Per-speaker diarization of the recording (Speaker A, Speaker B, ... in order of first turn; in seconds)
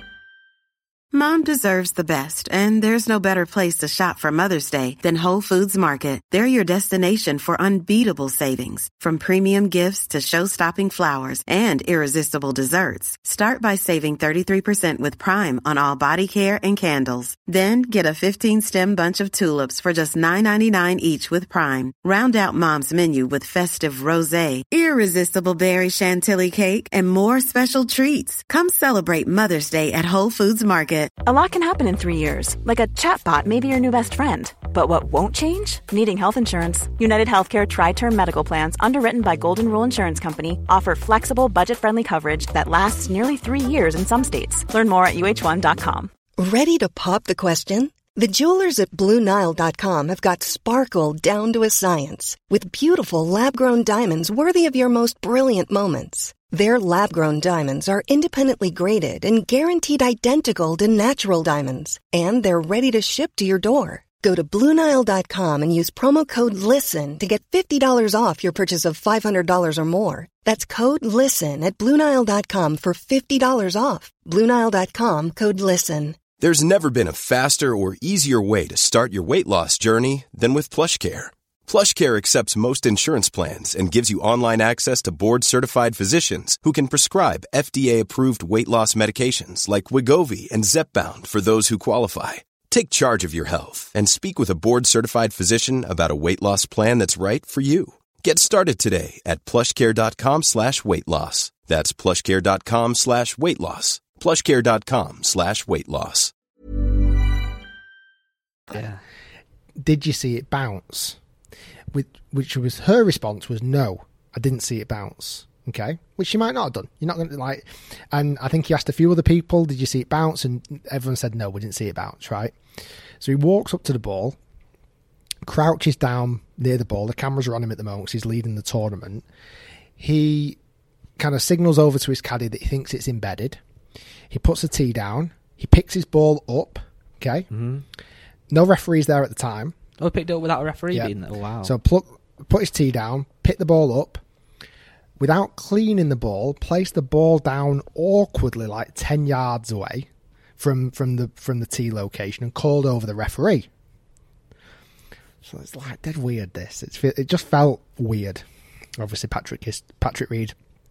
Speaker A: 1.1-31.1
Speaker B: 31.2-46.1
Speaker C: 46.4-76.2
Speaker D: 76.4-106.3
Speaker E: 108.7-109.0, 137.5-137.8, 140.0-141.7
Speaker F: 109.8-111.2, 111.9-122.5, 123.2-124.4, 125.4-129.2, 130.0-130.6, 131.2-133.6, 134.3-137.5, 138.5-139.8, 141.6-144.2, 145.2-153.7, 155.4-158.4, 159.0-160.5